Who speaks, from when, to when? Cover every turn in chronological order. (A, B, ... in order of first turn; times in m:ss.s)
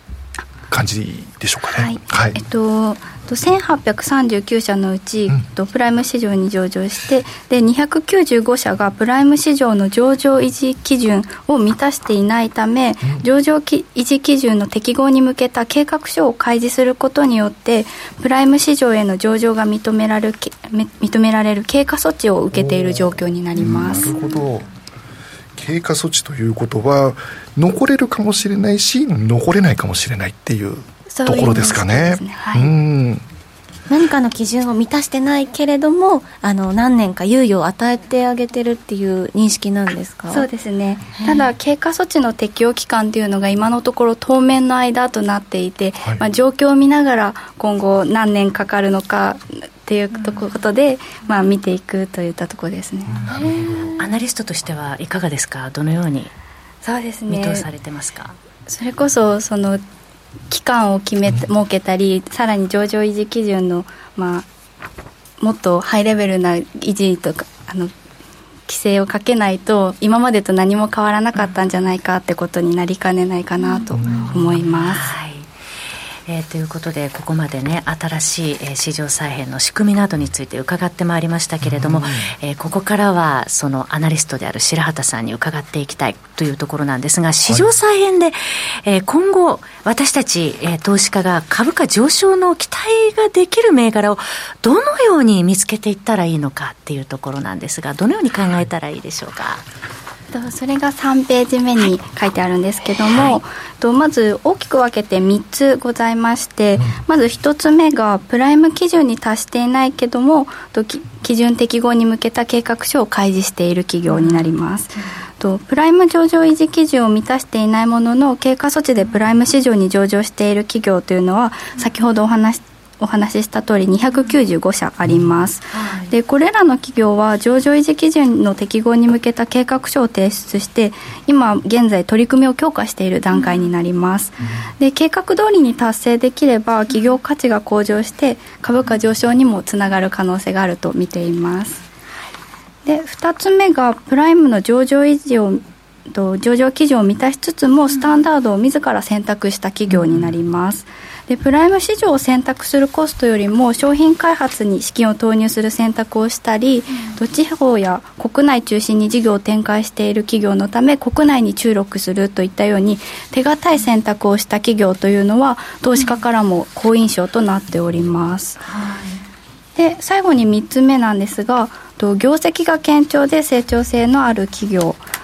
0:00.7-0:02.4 A
0:01.7-0:24.2 B
0:22.5-0:24.7 A
0:25.5-0:33.2 A
0:31.1-0:32.7 B
0:33.9-0:40.4 C
0:40.3-0:53.3 B
0:41.2-0:41.5 C
0:53.1-0:54.0 A
0:53.3-0:53.9 C
0:54.0-0:56.3 D
0:56.8-0:57.6 B
0:57.3-0:58.3 D
0:58.7-0:59.8 B
1:00.5-1:04.5 B
1:05.4-1:07.9 B
1:08.7-1:15.2 B
1:13.6-1:15.5 D
1:13.9-1:14.6 A
1:16.3-1:39.6 D
1:21.6-1:22.3 A
1:40.3-2:21.8 B
1:54.1-1:54.4 D
2:05.7-2:06.1 D
2:22.8-2:48.6 B
2:48.6-2:49.2 D
2:49.8-2:55.0 B